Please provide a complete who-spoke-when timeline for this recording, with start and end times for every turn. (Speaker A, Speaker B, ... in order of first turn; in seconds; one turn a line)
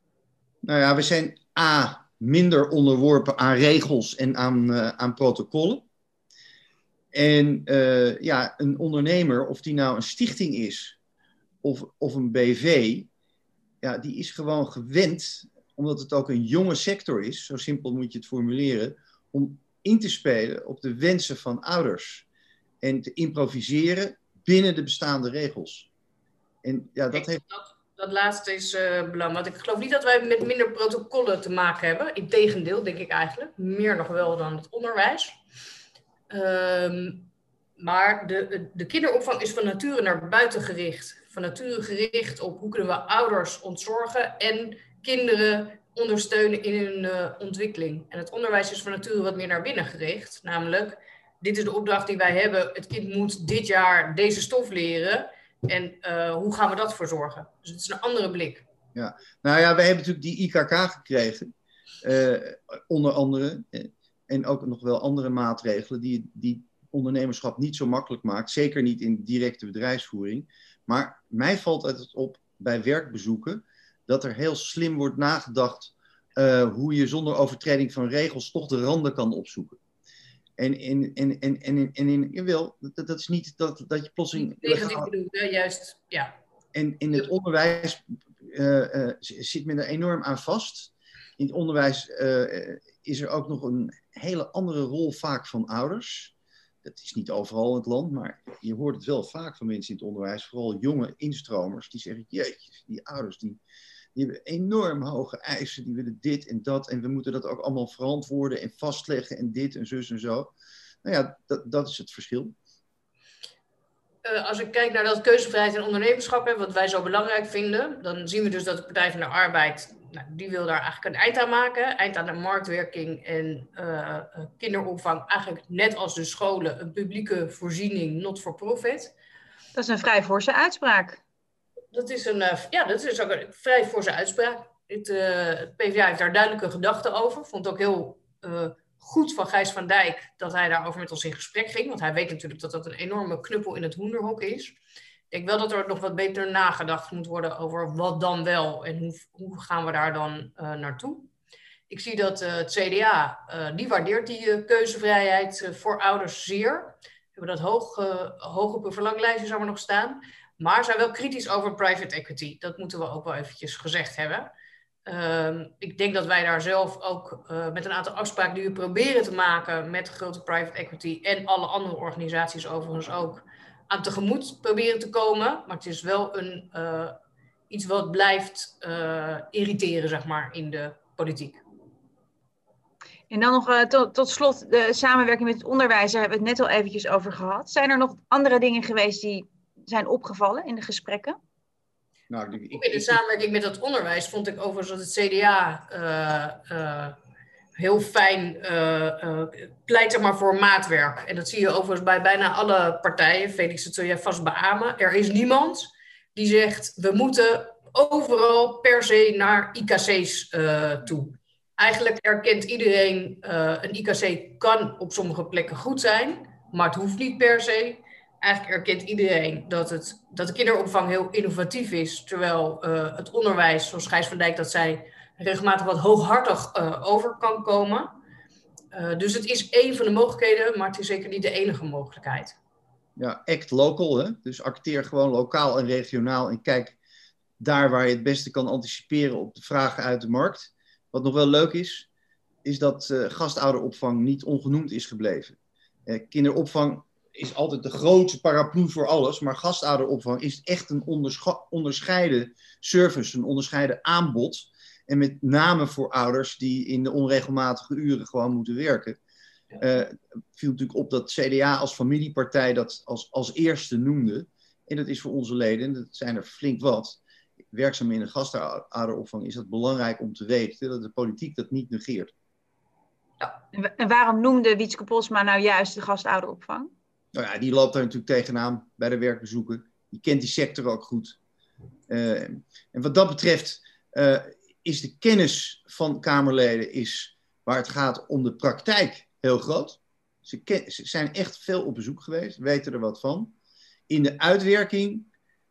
Speaker A: 0.6-5.8
Speaker A: 7.1-11.0
Speaker A: 11.6-13.1
Speaker A: 13.8-22.3
Speaker A: 22.8-25.9
Speaker A: 26.6-27.4
Speaker B: 27.1-35.4
Speaker B: 36.3-58.6
Speaker A: 59.0-61.5
Speaker A: 62.0-79.8
Speaker A: 80.6-85.1
Speaker B: 84.3-86.3
Speaker A: 86.7-103.6
Speaker A: 104.2-112.5
Speaker B: 114.2-129.1
Speaker C: 129.8-131.2
Speaker B: 131.9-144.8
Speaker B: 145.3-151.3
Speaker B: 151.9-164.5
Speaker B: 165.1-177.1
Speaker B: 177.7-181.6
Speaker C: 183.3-191.4
Speaker A: 192.3-193.2
Speaker B: 192.7-197.2
Speaker B: 197.8-228.2
Speaker B: 228.9-232.6
Speaker A: 233.2-237.0
Speaker A: 237.6-242.1
Speaker A: 242.6-259.2
Speaker A: 259.8-267.2
Speaker A: 267.7-272.3
Speaker C: 273.7-276.9
Speaker A: 277.3-281.4
Speaker A: 282.1-293.5
Speaker A: 294.1-295.3